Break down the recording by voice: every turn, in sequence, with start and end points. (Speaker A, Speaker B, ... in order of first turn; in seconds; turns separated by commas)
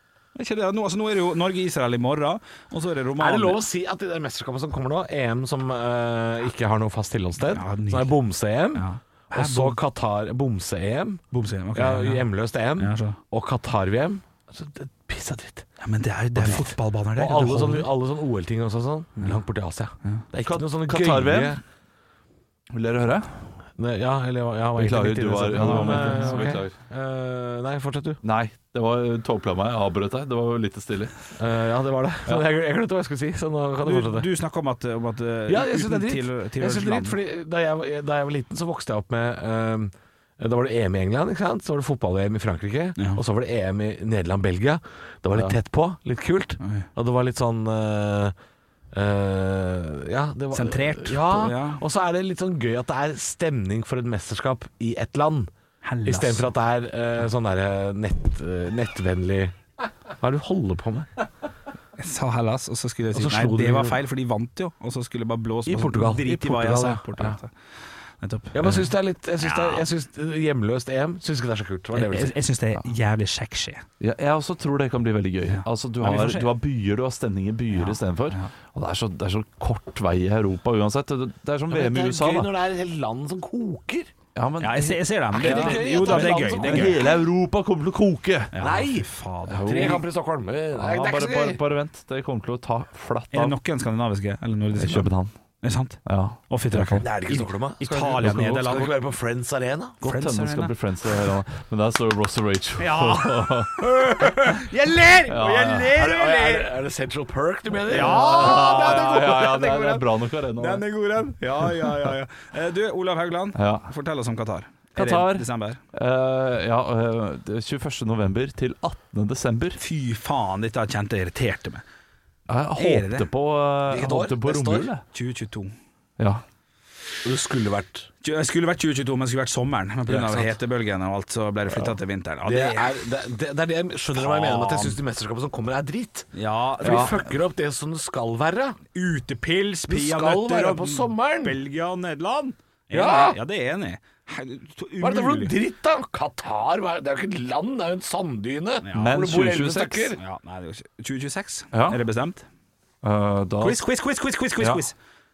Speaker A: 0.3-3.6, Speaker B: 3.2-11.2, Speaker A: 7.4-8.2, Speaker A: 8.7-9.8, Speaker A: 11.3-12.2, Speaker B: 11.7-15.7, Speaker A: 12.8-13.2, Speaker A: 15.8-17.9, Speaker B: 16.4-21.6, Speaker C: 20.4-21.6, Speaker C: 22.7-23.5, Speaker B: 23.8-28.2, Speaker C: 24.8-26.7, Speaker A: 25.5-26.6, Speaker C: 28.2-31.2, Speaker B: 31.4-34.3, Speaker A: 33.8-37.2, Speaker B: 35.5-48.3, Speaker A: 46.6-46.9, Speaker B: 48.9-55.5, Speaker A: 50.5-51.8, Speaker A: 55.8-56.5, Speaker B: 56.0-59.5, Speaker B: 60.2-61.1, Speaker A: 62.0-67.5, Speaker B: 63.1-64.0, Speaker B: 65.7-67.4, Speaker A: 68.2-68.8, Speaker B: 68.5-72.4, Speaker A: 69.4-69.8, Speaker A: 71.9-73.8, Speaker C: 74.0-82.5, Speaker A: 75.5-76.5, Speaker A: 77.7-78.5, Speaker B: 81.7-84.1, Speaker C: 84.3-88.7, Speaker A: 84.6-87.0, Speaker B: 85.3-87.2, Speaker A: 88.5-90.0, Speaker B: 88.6-91.6, Speaker C: 89.5-90.0, Speaker C: 90.7-93.5, Speaker A: 93.3-99.0, Speaker C: 94.7-95.3, Speaker C: 96.0-97.1, Speaker B: 97.0-100.0, Speaker A: 100.0-100.7, Speaker C: 100.0-103.8, Speaker A: 102.8-106.7, Speaker C: 105.3-105.9, Speaker B: 105.9-109.2, Speaker A: 107.9-110.0, Speaker C: 107.9-110.8, Speaker A: 110.5-115.8, Speaker C: 113.5-113.9, Speaker C: 114.9-119.8, Speaker A: 119.8-121.8, Speaker C: 122.5-125.0, Speaker A: 122.8-123.3, Speaker B: 123.9-124.9, Speaker A: 125.1-125.7, Speaker B: 127.2-128.1, Speaker A: 128.2-132.9, Speaker B: 130.1-130.6, Speaker B: 132.4-136.3, Speaker A: 134.1-135.0, Speaker A: 136.3-137.3, Speaker B: 136.8-138.8, Speaker A: 138.9-145.5, Speaker B: 139.9-141.6, Speaker B: 142.9-143.4, Speaker B: 145.0-150.2, Speaker A: 148.8-149.2, Speaker C: 148.9-150.1, Speaker A: 150.2-152.4, Speaker C: 151.7-152.0, Speaker C: 153.0-153.8, Speaker A: 153.6-154.9